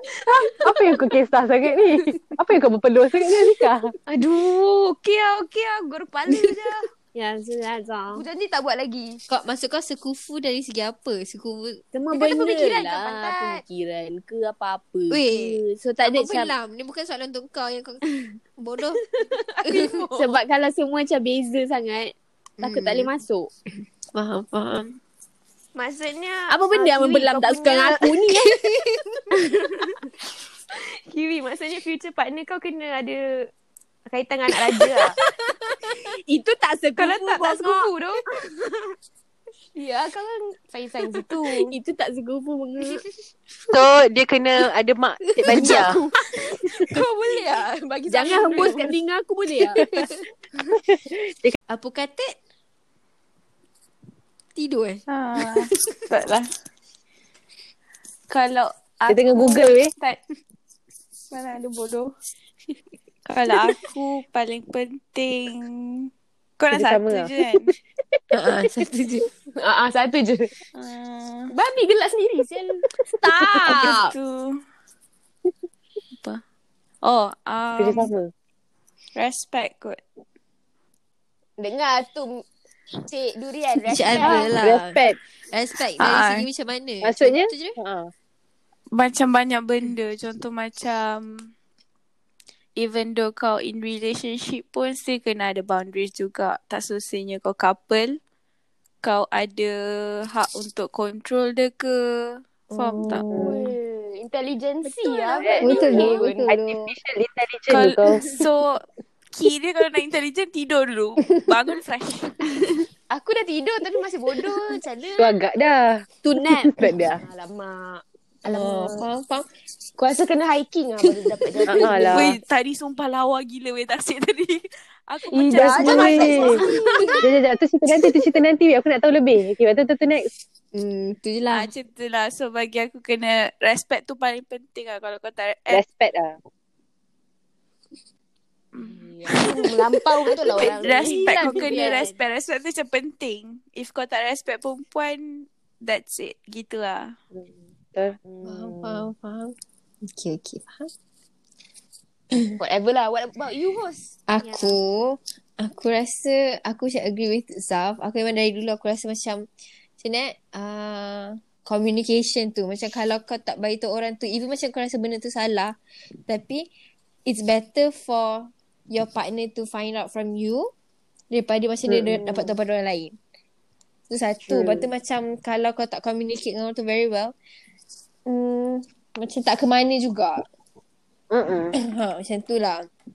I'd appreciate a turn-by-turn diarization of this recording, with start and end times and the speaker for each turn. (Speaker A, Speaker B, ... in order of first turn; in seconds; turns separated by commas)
Speaker A: 0.3-3.9, Speaker B: 4.1-6.9, Speaker C: 7.1-8.2, Speaker B: 8.1-9.2, Speaker D: 9.3-11.8, Speaker C: 11.9-16.5, Speaker B: 12.1-13.6, Speaker D: 15.1-18.0, Speaker D: 18.6-19.0, Speaker B: 19.5-20.4, Speaker C: 19.9-23.5, Speaker D: 22.6-23.1, Speaker D: 24.1-24.9, Speaker B: 25.7-28.3, Speaker C: 26.5-28.6, Speaker D: 28.3-29.2, Speaker C: 29.3-30.0, Speaker B: 30.7-33.5, Speaker B: 34.1-35.2, Speaker C: 34.9-38.5, Speaker B: 37.0-38.2, Speaker B: 39.7-41.7, Speaker C: 41.2-43.0, Speaker A: 43.7-46.0, Speaker B: 45.4-49.0, Speaker C: 48.1-49.8, Speaker D: 49.8-50.1, Speaker A: 50.9-51.6, Speaker D: 51.7-52.4, Speaker D: 54.5-55.0, Speaker E: 55.1-56.5, Speaker E: 58.3-59.7, Speaker A: 59.1-59.9, Speaker E: 61.3-62.1, Speaker E: 63.2-67.8, Speaker A: 66.7-67.3, Speaker D: 68.3-69.3, Speaker B: 69.6-70.5, Speaker E: 70.7-71.5, Speaker B: 71.5-72.3, Speaker C: 71.7-72.6, Speaker C: 73.2-74.1, Speaker E: 73.7-74.6, Speaker E: 76.1-76.4, Speaker E: 77.0-78.1, Speaker A: 77.8-78.3, Speaker E: 79.1-80.0, Speaker B: 81.6-82.4, Speaker B: 83.1-84.6, Speaker D: 83.9-85.0, Speaker C: 84.2-84.5, Speaker A: 84.6-85.2, Speaker D: 85.5-87.8, Speaker E: 86.0-86.5, Speaker A: 87.0-88.1, Speaker E: 88.9-91.5, Speaker E: 92.8-98.2, Speaker E: 99.0-103.2, Speaker D: 102.7-103.7, Speaker A: 103.3-103.6, Speaker B: 103.4-106.5, Speaker C: 104.8-106.3, Speaker A: 105.4-105.8, Speaker D: 105.6-106.9, Speaker A: 106.5-108.2, Speaker E: 107.7-108.8, Speaker E: 109.3-112.3, Speaker C: 112.5-112.8, Speaker B: 113.1-115.4, Speaker A: 115.2-117.2, Speaker C: 116.2-116.9, Speaker B: 117.1-119.0, Speaker D: 118.5-119.5, Speaker B: 120.0-122.3, Speaker A: 121.7-122.4, Speaker E: 122.1-126.8, Speaker B: 125.3-126.7, Speaker A: 125.5-126.5, Speaker C: 126.1-127.2, Speaker D: 126.7-127.2, Speaker A: 127.2-130.3, Speaker D: 130.7-131.7, Speaker E: 131.5-135.8, Speaker A: 135.7-136.4, Speaker E: 138.7-139.6, Speaker B: 139.3-141.9, Speaker C: 140.3-142.2, Speaker E: 140.6-147.2, Speaker A: 147.3-149.1, Speaker D: 148.4-150.9, Speaker B: 152.6-154.1, Speaker D: 154.3-159.5, Speaker C: 154.4-154.7, Speaker D: 160.0-165.7, Speaker D: 166.2-166.7, Speaker D: 167.2-170.7, Speaker D: 171.3-173.2, Speaker A: 171.9-172.6, Speaker D: 174.1-177.3, Speaker A: 174.5-174.9, Speaker D: 178.2-180.4, Speaker A: 181.3-181.7, Speaker D: 181.8-182.8